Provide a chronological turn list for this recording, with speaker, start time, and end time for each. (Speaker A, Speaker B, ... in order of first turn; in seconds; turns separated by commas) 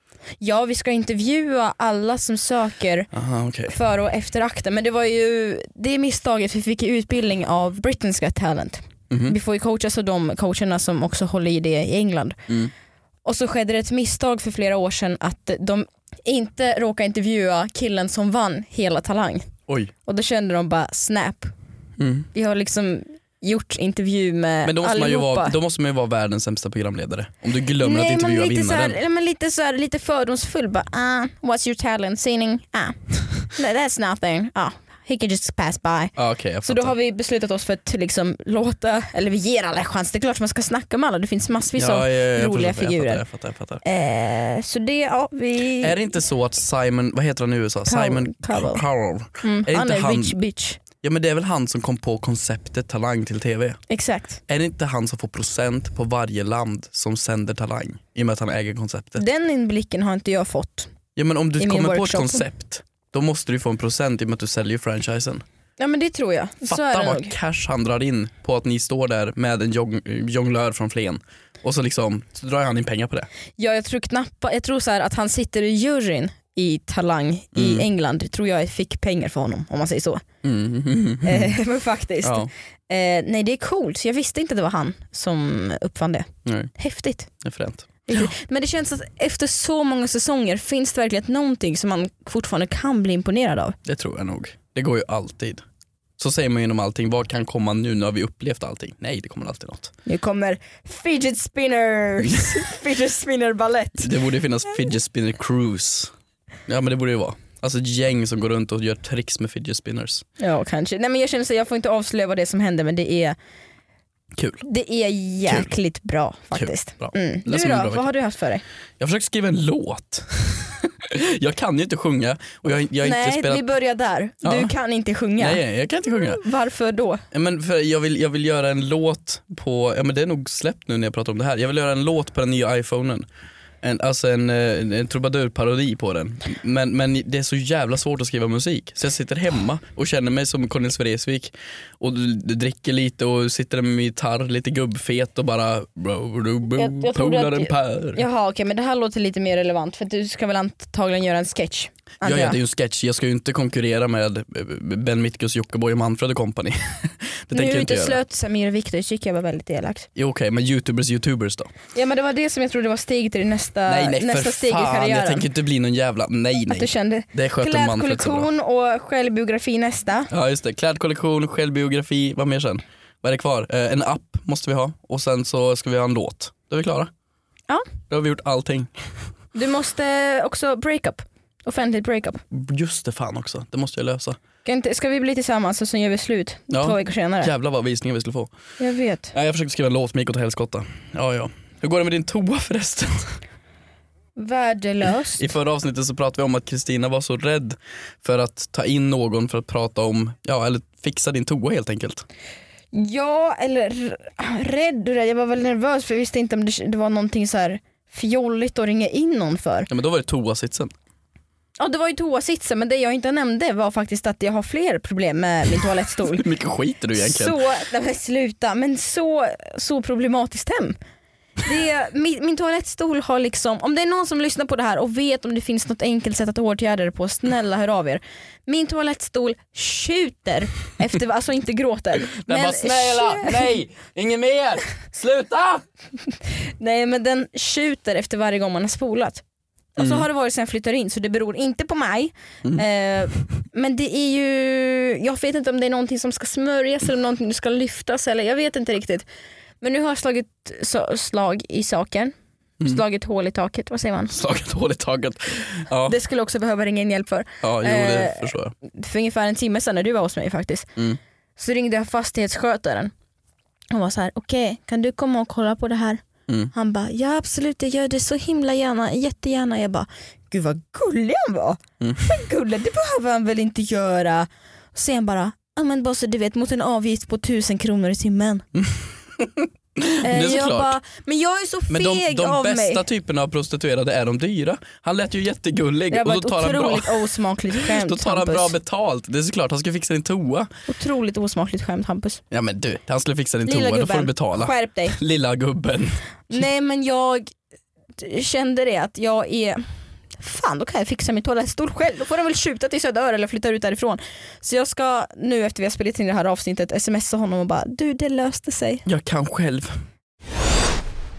Speaker A: 0.4-3.1, Speaker B: 3.1-3.7, Speaker A: 3.7-12.4, Speaker B: 9.1-9.3, Speaker A: 13.2-19.5, Speaker A: 20.0-21.5, Speaker B: 22.0-22.3, Speaker A: 22.3-25.5, Speaker B: 24.6-29.0, Speaker A: 27.8-43.2, Speaker B: 36.1-36.9, Speaker B: 41.8-43.8, Speaker A: 43.8-46.0, Speaker B: 45.8-50.4, Speaker A: 47.9-48.8, Speaker A: 49.4-50.8, Speaker B: 51.0-53.8, Speaker A: 53.9-54.4, Speaker B: 54.5-59.2, Speaker A: 59.2-60.9, Speaker B: 61.1-65.4, Speaker A: 61.6-62.4, Speaker A: 65.8-67.3, Speaker B: 66.6-73.3, Speaker A: 73.5-80.2, Speaker B: 77.5-77.8, Speaker B: 80.4-81.6, Speaker A: 81.2-87.3, Speaker B: 82.2-82.5, Speaker B: 86.5-86.7, Speaker B: 87.4-88.3, Speaker A: 88.0-93.8, Speaker B: 93.8-95.6, Speaker B: 96.2-99.9, Speaker A: 100.0-104.1, Speaker B: 102.2-102.6, Speaker B: 104.0-106.1, Speaker B: 106.7-110.2, Speaker A: 110.4-113.3, Speaker B: 114.3-114.6, Speaker A: 114.6-118.6, Speaker B: 115.5-115.7, Speaker B: 116.5-118.0, Speaker B: 119.0-123.6, Speaker A: 123.0-125.6, Speaker B: 124.4-124.7, Speaker B: 125.4-126.4, Speaker A: 126.3-127.2, Speaker B: 127.3-133.2, Speaker B: 133.8-148.2, Speaker A: 146.7-152.6, Speaker B: 152.2-158.2, Speaker A: 157.5-160.1, Speaker B: 160.2-161.7, Speaker A: 161.9-165.5, Speaker B: 163.9-168.5, Speaker A: 166.7-170.3, Speaker B: 170.3-177.1, Speaker B: 178.1-178.9, Speaker A: 179.5-182.4, Speaker B: 182.5-184.4, Speaker A: 184.6-187.5, Speaker B: 186.7-188.5, Speaker A: 188.8-189.3, Speaker B: 189.3-193.4, Speaker A: 194.3-195.5, Speaker B: 195.4-202.2, Speaker A: 202.9-209.9, Speaker B: 209.9-210.9, Speaker A: 211.8-216.4, Speaker B: 216.3-217.6, Speaker A: 217.2-221.0, Speaker A: 221.6-233.7, Speaker B: 232.3-235.8, Speaker A: 236.6-239.4, Speaker A: 239.9-249.2, Speaker B: 240.0-240.2, Speaker A: 249.8-254.3, Speaker B: 254.3-256.1, Speaker A: 256.1-260.9, Speaker B: 257.6-258.7, Speaker A: 261.6-263.1, Speaker A: 263.9-266.2, Speaker A: 266.7-278.6, Speaker B: 272.0-272.2, Speaker B: 278.7-280.9, Speaker A: 280.2-283.0, Speaker B: 281.9-287.2, Speaker A: 286.1-288.7, Speaker B: 287.8-290.7, Speaker A: 290.9-292.4, Speaker B: 292.5-296.1, Speaker A: 293.6-295.2, Speaker A: 296.5-297.5, Speaker A: 298.2-299.9, Speaker A: 300.4-309.0, Speaker B: 309.1-309.9